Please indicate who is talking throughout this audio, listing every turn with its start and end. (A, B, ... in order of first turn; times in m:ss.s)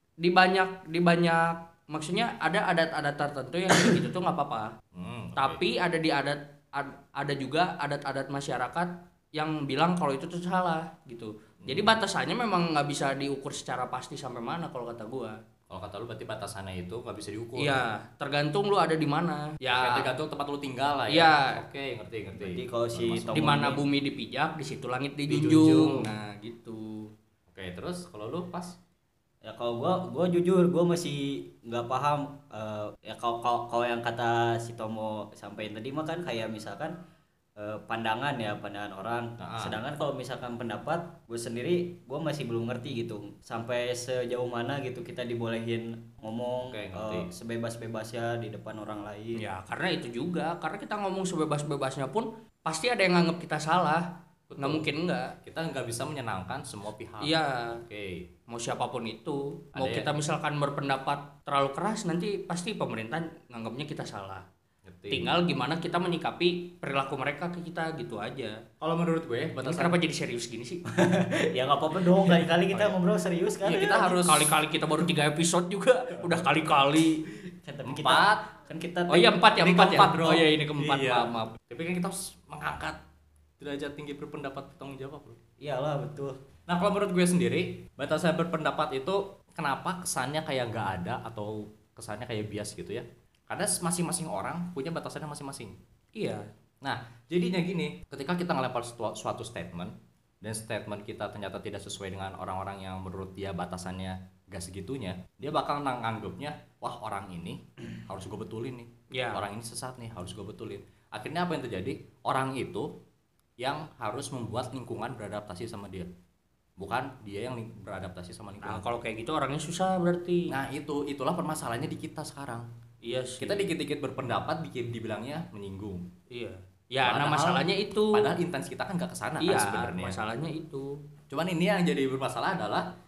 0:00.2-0:04.7 A
0:04.9-0:05.7 B
0:05.4-0:15.4 A
0:11.6-0:12.0 B
0:15.7-0:17.8 B
0:17.6-0:20.1 A
0:19.7-0:23.5 B
0:21.1-0:21.6 A
0:22.3-0:23.8 C
0:23.3-0:27.1 A
0:25.3-0:26.1 B
0:27.5-0:28.8 B
0:29.4-0:37.0 C
0:37.6-0:49.4 C
0:39.4-0:39.8 B
0:46.7-0:47.3 B
0:49.4-0:54.1 A
0:54.5-0:54.9 B
0:54.6-0:55.4 A
0:55.4-0:58.3 B
0:57.2-0:57.8 A
0:58.5-1:04.4 A
0:59.8-1:00.1 B
1:04.8-1:05.3 B
1:05.1-1:08.6 A
1:08.8-1:10.0 B
1:09.6-1:10.8 A
1:10.9-1:14.2 C
1:13.6-1:14.6 B
1:14.2-1:17.2 A
1:17.5-1:19.3 C
1:17.8-1:18.5 B
1:19.1-1:21.5 A
1:19.6-1:23.0 B
1:23.6-1:25.4 B
1:25.6-1:26.4 C
1:26.7-1:35.8 B
1:36.2-1:36.5 A
1:36.8-1:52.9 B
1:49.1-1:49.4 A
1:53.6-1:56.1 B
1:56.8-1:58.9 B
1:58.6-2:00.6 A
2:00.5-2:02.7 B
2:03.0-2:03.7 A
2:03.4-2:06.1 B
2:06.3-2:08.3 A
2:07.0-2:10.2 B
2:09.4-2:11.0 A
2:11.3-2:12.9 B